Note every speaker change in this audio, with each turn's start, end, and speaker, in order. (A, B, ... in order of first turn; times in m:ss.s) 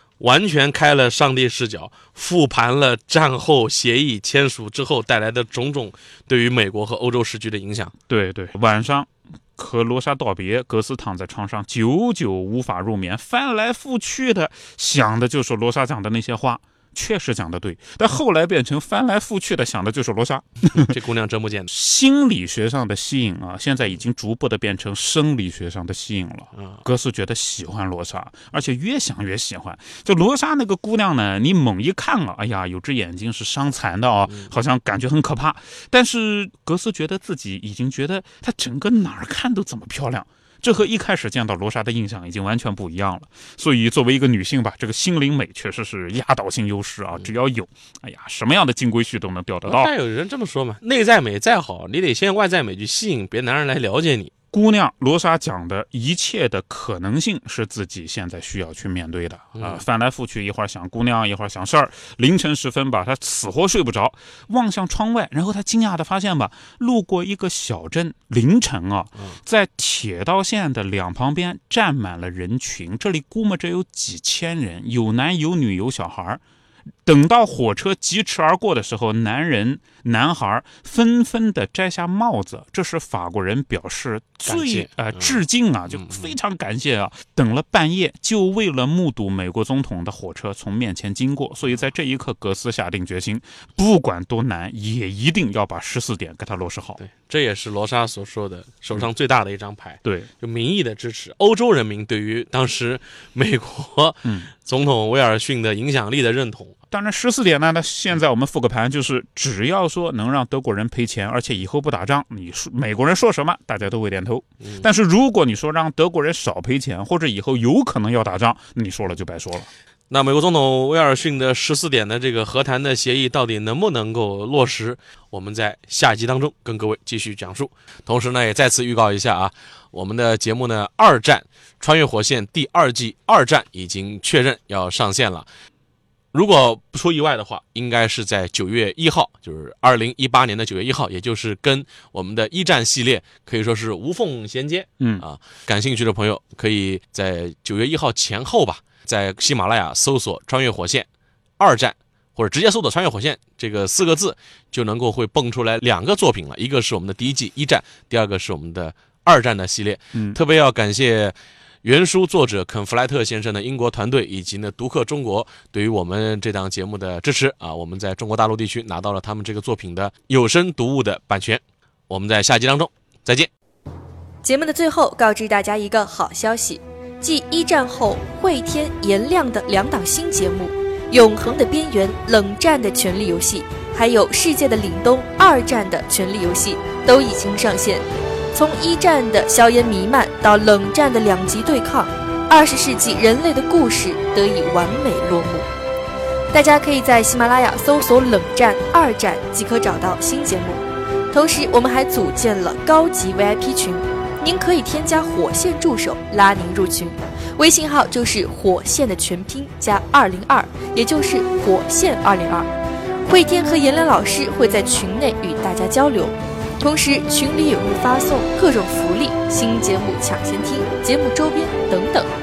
0:00.2-0:07.9 A
0:08.1-0:20.9 B
0:20.7-0:21.7 A
0:21.7-0:49.9 B
0:26.5-0:26.8 A
0:49.6-0:54.3 A
0:54.5-1:16.4 B
0:59.6-0:59.8 A
1:17.0-1:37.0 B
1:24.4-1:26.4 A
1:37.0-1:46.8 A
1:40.0-1:40.3 B
1:44.2-1:44.5 B
1:46.9-1:59.7 B
2:00.1-2:15.5 A
2:16.3-2:53.5 A
2:25.0-2:25.2 B
2:40.1-2:40.4 B
2:54.4-3:15.7 C
3:16.5-3:32.7 C
3:33.2-3:42.3 C